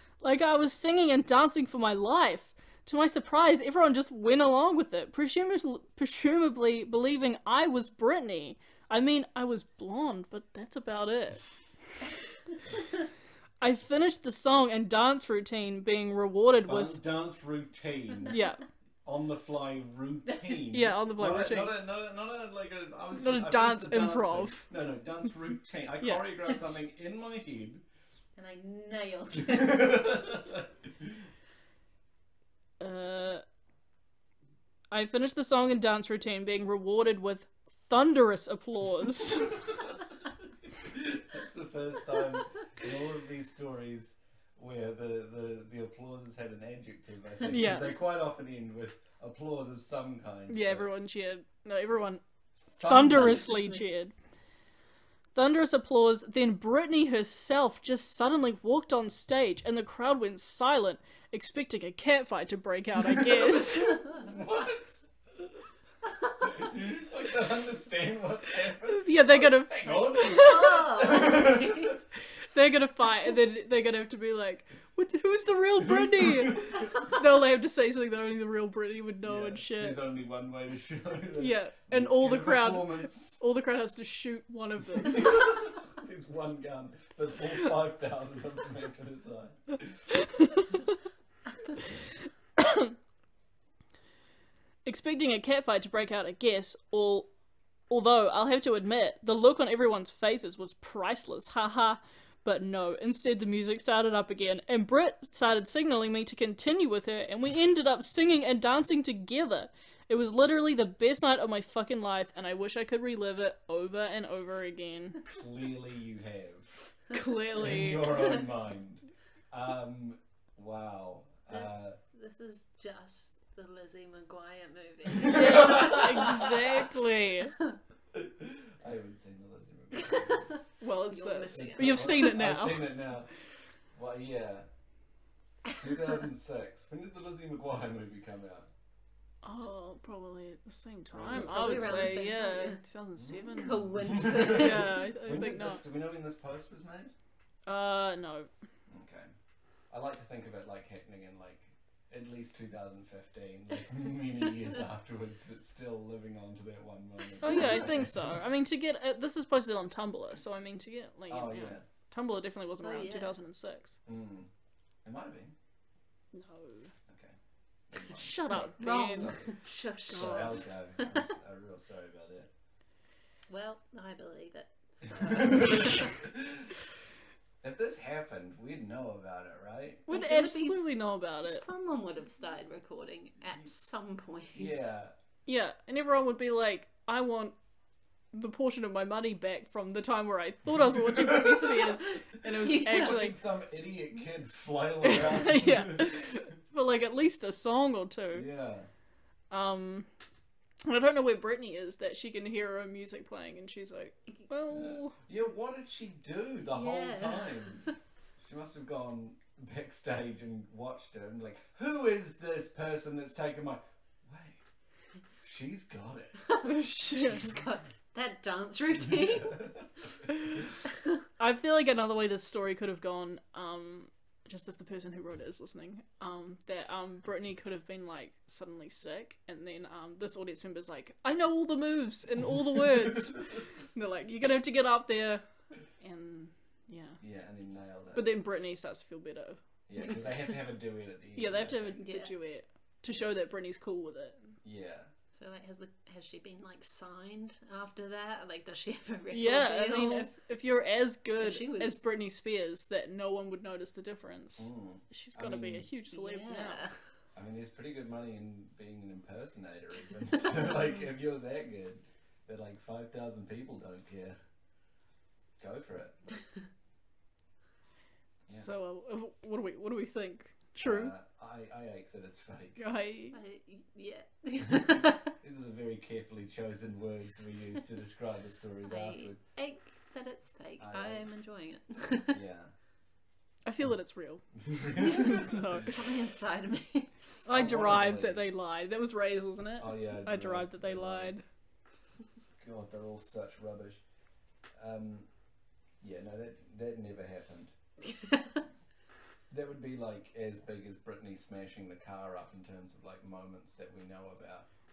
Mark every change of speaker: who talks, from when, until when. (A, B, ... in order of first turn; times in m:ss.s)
0:00.2-0:11.4 A
0:13.6-0:17.0 A
0:16.6-0:18.4 B
0:18.3-0:18.6 A
0:19.0-0:27.8 B
0:20.7-0:21.7 A
0:23.2-0:24.6 A
0:26.0-0:26.7 A
0:28.4-0:30.3 C
0:29.5-0:31.1 B
0:32.8-0:33.4 A
0:34.9-0:39.7 A
0:39.6-0:39.9 B
0:40.8-0:50.9 B
0:47.4-0:48.0 A
0:50.5-0:52.2 A
0:52.8-0:53.6 B
0:52.8-0:54.1 A
0:53.0-0:53.8 C
0:55.4-1:04.2 A
1:04.1-1:05.0 B
1:06.4-1:12.0 B
1:08.9-1:11.1 A
1:10.3-1:12.0 C
1:12.5-1:20.0 A
1:15.8-1:16.9 B
1:19.2-1:23.4 B
1:21.4-1:25.4 A
1:25.0-1:30.3 B
1:30.4-1:30.8 A
1:32.6-1:32.9 A
1:34.8-1:37.3 A
1:37.9-1:55.2 A
1:55.2-1:56.8 B
1:57.1-1:58.2 A
1:57.6-2:02.0 B
2:01.5-2:06.6 C
2:05.1-2:06.5 B
2:05.3-2:07.6 A
2:08.2-2:10.5 B
2:10.1-2:12.4 C
2:10.8-2:12.9 A
2:11.5-2:13.3 B
2:13.9-2:14.7 B
2:15.7-2:18.7 B
2:19.4-2:25.8 A
2:21.1-2:22.2 B
2:21.2-2:22.8 C
2:23.2-2:27.1 B
2:23.5-2:25.0 C
2:27.7-2:28.5 A
2:28.9-2:29.3 B
2:29.9-2:38.4 B
2:37.4-2:44.0 A
2:41.3-2:41.8 B
2:42.8-2:43.4 C
2:44.1-2:44.5 B
2:45.0-2:45.5 B
2:46.3-2:46.9 A
2:47.1-2:47.4 B
2:47.9-2:52.5 B
2:48.1-2:49.4 A
2:48.5-2:51.2 C
2:50.1-2:50.6 A
2:53.5-2:56.2 C
2:55.2-2:56.7 B
2:57.6-3:00.1 B
3:00.1-3:01.7 A
3:00.1-3:04.9 C
3:04.6-3:05.1 B
3:05.5-3:07.6 A
3:08.3-3:13.4 A
3:11.1-3:11.8 B
3:12.5-3:13.2 C
3:12.9-3:16.1 B
3:15.0-3:18.5 A
3:18.3-3:18.9 B
3:19.5-3:20.1 A
3:20.8-3:25.2 A
3:24.7-3:34.6 B
3:26.7-3:27.9 C
3:35.4-3:36.5 B
3:36.6-3:39.8 C
3:36.6-3:37.6 A
3:39.2-3:39.9 B
3:41.4-3:55.4 A
3:56.0-3:57.2 A
3:57.2-3:58.3 B
3:58.1-3:59.6 A
3:59.9-4:02.0 B
4:01.4-4:04.5 A
4:02.0-4:02.4 C
4:04.6-4:05.1 B
4:05.3-4:10.3 C
4:09.3-4:16.8 A
4:11.4-4:12.0 C
4:14.6-4:15.9 B
4:16.1-4:16.9 C
4:17.4-4:24.4 B
4:25.6-4:26.2 B
4:28.5-4:31.1 A
4:30.8-4:32.8 B
4:32.8-4:33.4 A
4:33.3-4:35.3 C
4:34.7-4:39.4 B
4:38.8-4:42.4 C
4:40.8-4:41.2 B
4:42.3-4:42.7 B
4:43.7-4:44.4 A
4:44.6-4:45.8 B
4:45.0-4:46.1 A
4:45.9-4:47.1 C
4:47.5-4:51.4 A
4:47.5-4:48.5 B
4:49.8-4:51.4 B
4:52.6-4:54.0 B
4:54.8-4:55.3 B
4:56.0-4:57.8 B
4:58.2-4:58.6 C
4:59.5-5:04.7 B